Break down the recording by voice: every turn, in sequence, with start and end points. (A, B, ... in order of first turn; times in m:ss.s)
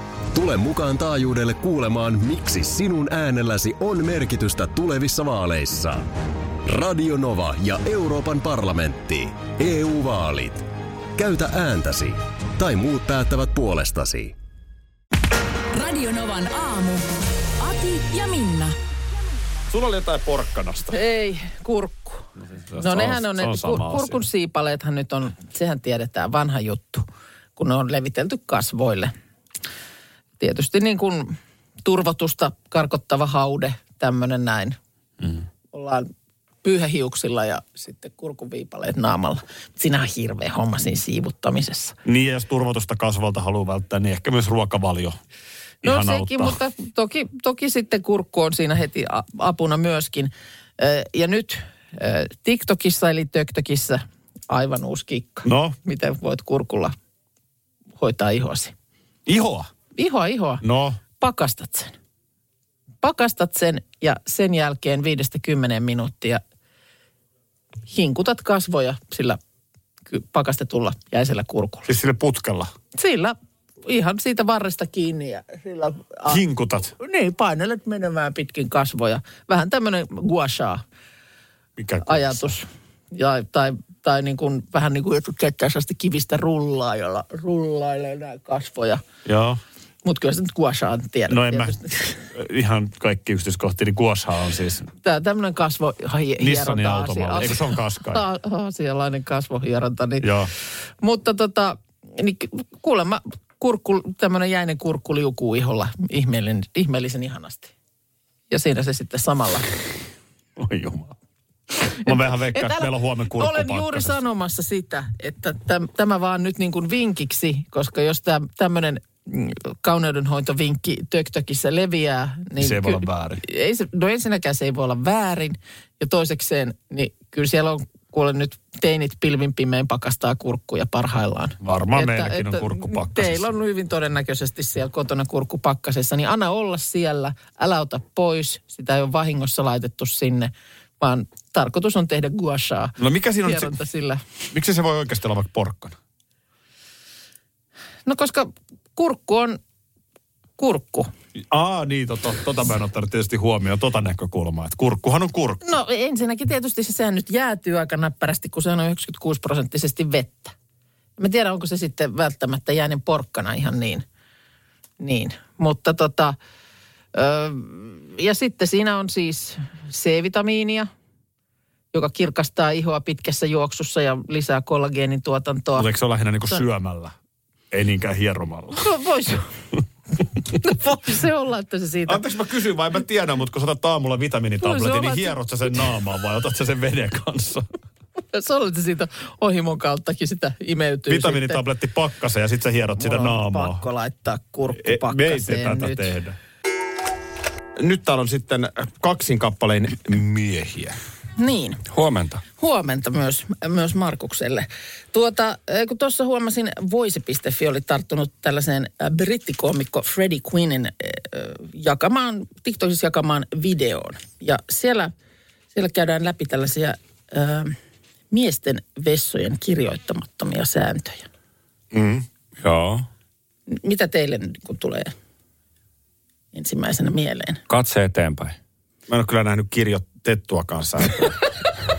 0:00.3-0:06.1 A
0:06.7-0:10.7 A
0:11.2-0:14.4 A
0:15.7-0:17.1 B
0:17.6-0:18.8 B
0:19.7-0:21.0 C
0:20.9-0:22.3 D
0:22.5-0:24.2 C
0:22.8-0:27.1 D
0:27.6-0:29.1 D
0:30.4-0:34.8 D
0:35.7-0:36.1 D
0:36.6-0:42.0 D
0:42.0-0:45.2 C
0:45.8-0:46.6 C
0:45.8-0:57.0 D
0:55.4-0:55.8 C
0:58.0-0:58.7 D
0:59.3-0:59.7 C
1:00.0-1:00.6 D
1:00.6-1:01.0 C
1:01.2-1:01.9 D
1:03.0-1:06.4 D
1:07.9-1:09.4 D
1:10.1-1:11.9 D
1:11.9-1:12.7 C
1:13.0-1:16.4 D
1:16.3-1:16.9 C
1:17.0-1:20.8 D
1:21.8-1:22.5 C
1:22.0-1:29.0 D
1:29.2-1:29.6 C
1:30.0-1:32.1 D
1:31.3-1:34.9 C
1:35.0-1:40.3 D
1:36.4-1:38.2 C
1:40.2-1:40.5 C
1:41.0-1:47.7 D
1:48.5-1:49.7 D
1:50.6-1:51.2 C
1:52.0-1:54.2 C
1:52.0-2:24.2 D
2:02.6-2:03.4 C
2:11.6-2:13.5 C
2:23.0-2:23.8 C
2:24.5-2:26.0 C
2:28.0-2:29.6 D
2:30.6-2:31.1 D
2:31.5-2:35.6 C
2:35.6-2:40.6 D
2:41.2-2:44.0 D
2:45.0-2:46.4 D
2:47.1-2:50.9 D
2:51.9-2:55.9 D
2:55.8-2:57.2 C
2:57.7-2:58.9 C
2:58.8-2:59.5 D
3:00.6-3:02.2 D
3:02.1-3:07.7 C
3:04.6-3:05.4 D
3:08.3-3:11.6 D
3:11.1-3:13.8 C
3:13.0-3:16.1 D
3:14.7-3:16.4 C
3:17.8-3:21.0 C
3:21.4-3:21.8 D
3:21.9-3:22.4 E
3:22.6-3:35.1 D
3:35.7-3:37.8 D
3:38.3-3:41.3 D
3:41.9-3:42.2 C
3:42.6-3:43.1 E
3:43.7-3:45.1 D
3:46.5-3:47.6 D
3:47.7-3:48.6 E
3:49.1-3:51.4 C